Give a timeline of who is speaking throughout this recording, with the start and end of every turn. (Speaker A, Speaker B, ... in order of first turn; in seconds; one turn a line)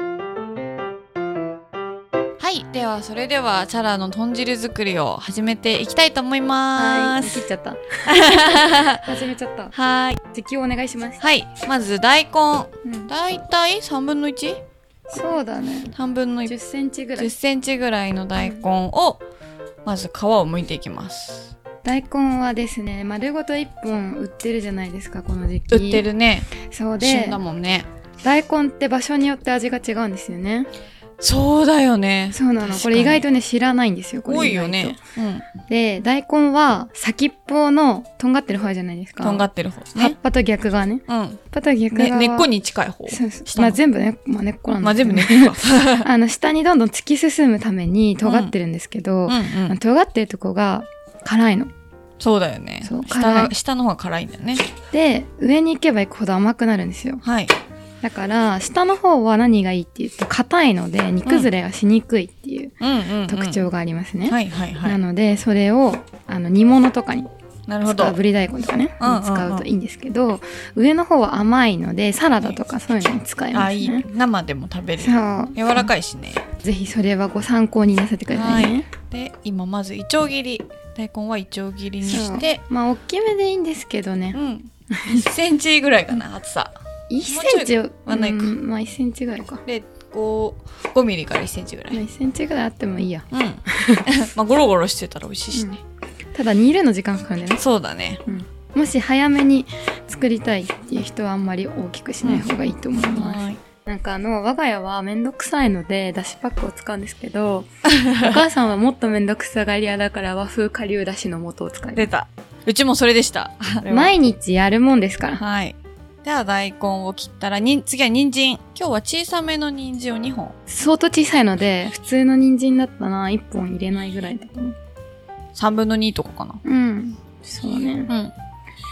Speaker A: 2.4-7.4
Speaker B: 6.7-9.7
Speaker A: 8.0-9.0
Speaker A: 9.7-10.2
Speaker B: 10.3-11.2
Speaker A: 11.2-14.6
Speaker B: 12.8-13.1
Speaker B: 15.1-15.9
Speaker A: 15.9-16.5
Speaker B: 16.4-17.3
Speaker A: 17.2-19.2
Speaker B: 18.4-18.6
Speaker A: 19.8-21.5
Speaker B: 21.8-26.1
Speaker A: 25.7-27.9
Speaker B: 26.6-27.4
Speaker B: 28.2-30.7
Speaker A: 31.2-33.2
Speaker B: 32.3-35.0
Speaker A: 34.2-35.5
Speaker B: 35.6-42.5
Speaker A: 39.2-40.2
Speaker A: 41.1-41.4
Speaker A: 41.9-43.8
Speaker B: 43.1-51.7
Speaker A: 44.8-46.1
Speaker A: 48.2-48.5
Speaker A: 49.3-49.8
Speaker A: 52.2-54.6
Speaker B: 52.8-53.5
Speaker B: 54.9-57.2
Speaker A: 57.2-57.5
Speaker B: 58.0-62.7
Speaker A: 61.2-61.5
Speaker A: 62.8-63.6
Speaker B: 63.3-67.3
Speaker A: 64.2-65.0
Speaker A: 67.7-68.2
Speaker B: 67.9-74.0
Speaker A: 69.0-69.6
Speaker A: 73.5-76.4
Speaker B: 75.0-75.9
Speaker B: 76.6-78.9
Speaker A: 78.3-82.6
Speaker B: 82.0-85.2
Speaker A: 84.3-88.5
Speaker B: 87.1-89.6
Speaker A: 89.7-92.0
Speaker B: 91.9-94.0
Speaker A: 93.3-95.7
Speaker B: 95.5-95.8
Speaker B: 96.3-97.6
Speaker A: 97.6-98.2
Speaker B: 98.2-112.1
Speaker A: 103.1-103.6
Speaker A: 107.9-108.4
Speaker A: 112.0-114.2
Speaker B: 113.9-115.4
Speaker A: 115.4-120.5
Speaker B: 120.7-124.7
Speaker A: 125.5-126.6
Speaker B: 126.6-128.1